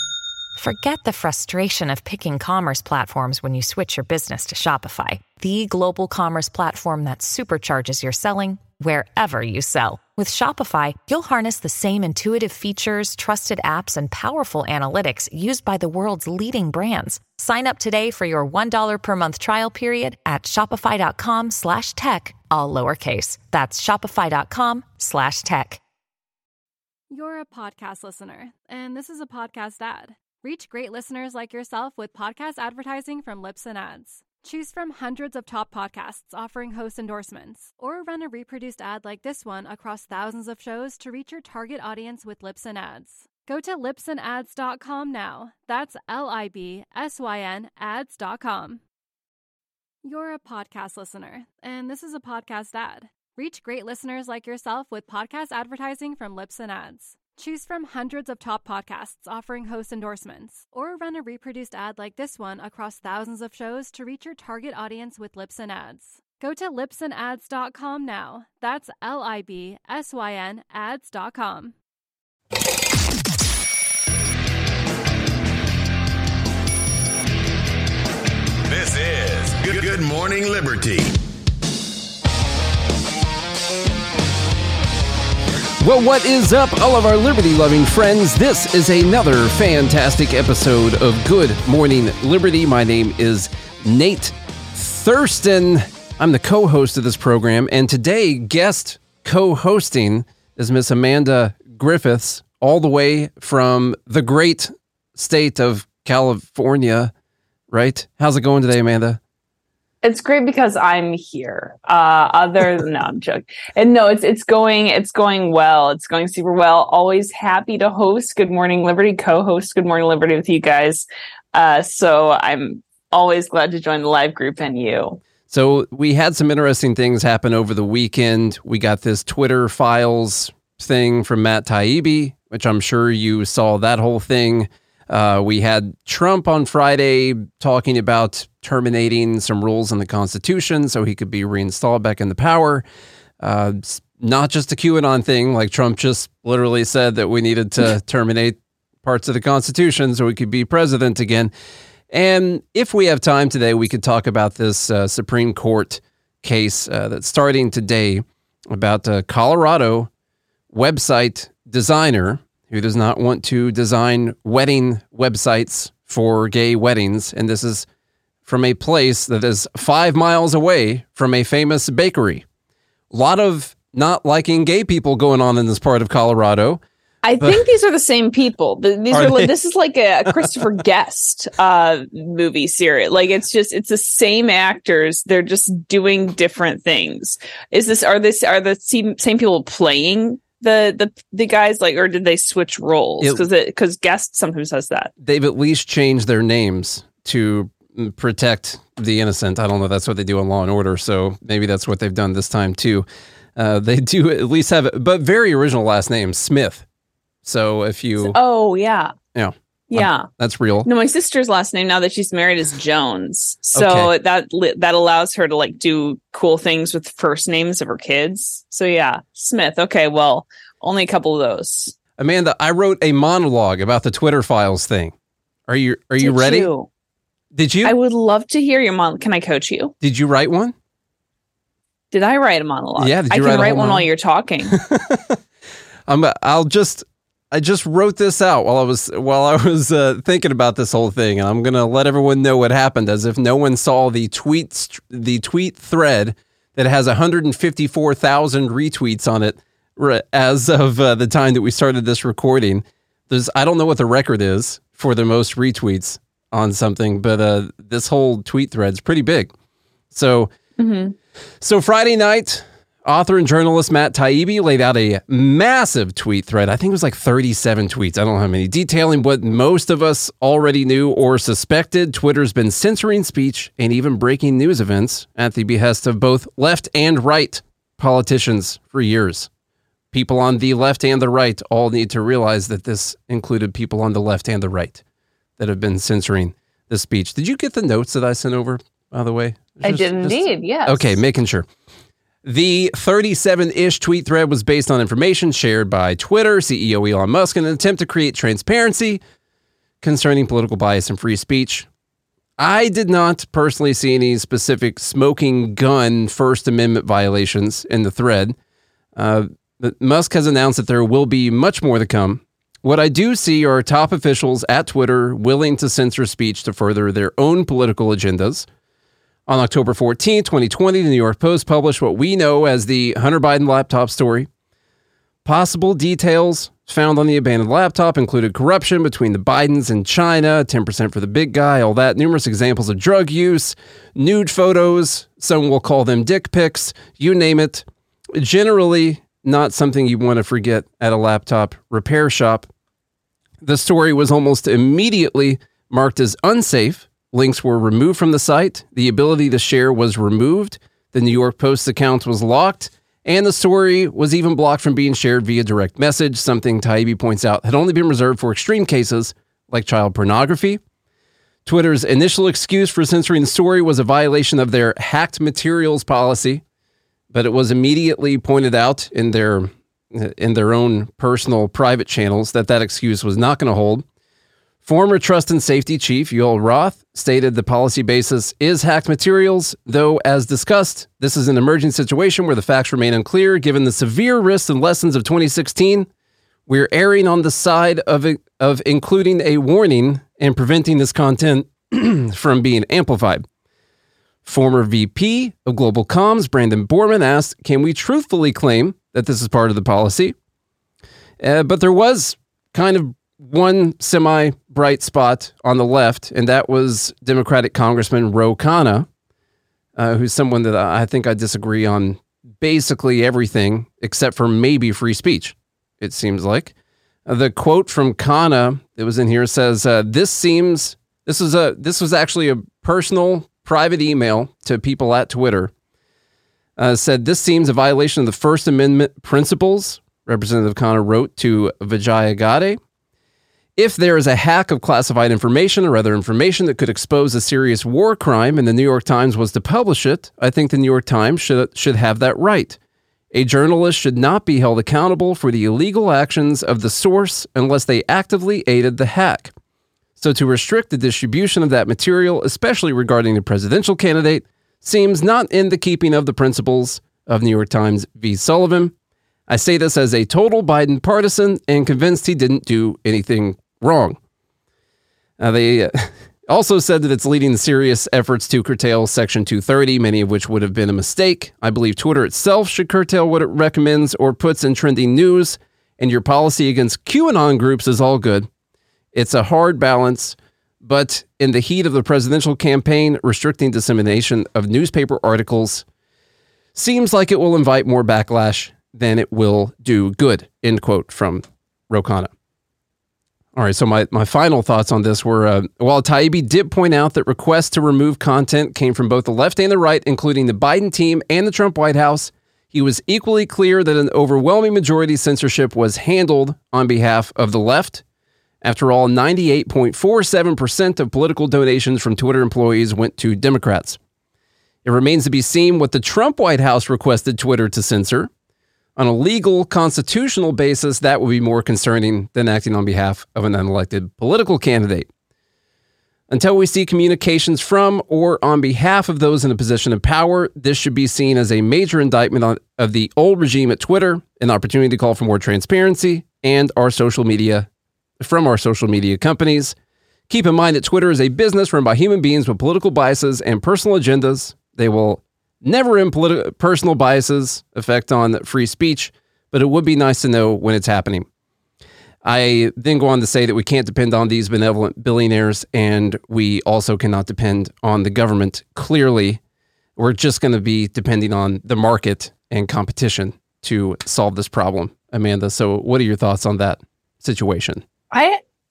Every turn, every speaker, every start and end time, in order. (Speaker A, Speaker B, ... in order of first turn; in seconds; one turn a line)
Speaker A: 0.6-25.8
Speaker B: 27.1-48.8
Speaker B: 50.0-71.8
Speaker C: 78.7-81.1
Speaker D: 85.8-107.1
Speaker D: 107.7-109.2
Speaker E: 110.0-125.2
Speaker D: 125.5-142.8
Speaker D: 143.4-151.5
Speaker D: 152.1-160.1
Speaker D: 160.7-167.9
Speaker D: 168.4-172.4
Speaker D: 173.1-176.8
Speaker E: 177.2-195.1
Speaker D: 177.4-177.7
Speaker D: 179.1-179.5
Speaker D: 180.3-180.6
Speaker D: 195.2-203.1
Speaker D: 203.6-206.8
Speaker D: 207.4-208.4
Speaker E: 208.2-209.2
Speaker D: 209.3-210.9
Speaker E: 209.9-210.3
Speaker E: 210.8-221.9
Speaker D: 213.8-214.1
Speaker D: 222.2-225.1
Speaker D: 225.7-226.7
Speaker E: 226.2-226.9
Speaker D: 227.5-227.9
Speaker E: 227.8-229.9
Speaker D: 230.0-230.8
Speaker E: 232.1-234.8
Speaker D: 233.0-234.1
Speaker D: 234.7-235.4
Speaker D: 236.1-259.5
Speaker D: 260.1-260.5
Speaker E: 260.8-261.1
Speaker D: 261.6-279.5
Speaker D: 280.1-285.0
Speaker D: 285.6-291.7
Speaker E: 289.8-291.2
Speaker D: 292.4-299.2
Speaker D: 300.0-301.9
Speaker D: 302.6-308.6
Speaker D: 309.2-318.7
Speaker D: 319.5-324.5
Speaker D: 325.4-342.7
Speaker D: 343.6-360.8
Speaker D: 361.7-366.6
Speaker D: 367.3-374.1
Speaker D: 374.8-386.1
Speaker D: 386.7-393.5
Speaker D: 394.4-400.4
Speaker D: 401.4-409.1
Speaker D: 410.0-416.7
Speaker D: 417.3-425.7
Speaker D: 426.8-432.8
Speaker D: 433.8-442.8
Speaker D: 443.3-449.5
Speaker D: 450.2-458.9
Speaker D: 459.5-464.2
Speaker D: 465.4-478.5
Speaker D: 479.1-485.9
Speaker D: 486.8-492.3
Speaker D: 493.6-508.0
Speaker D: 508.6-514.0
Speaker D: 514.9-518.3
Speaker D: 519.0-525.1
Speaker D: 526.3-537.7
Speaker D: 538.2-539.8
Speaker D: 540.3-551.3
Speaker D: 552.2-559.4
Speaker D: 560.0-567.8
Speaker E: 568.1-568.4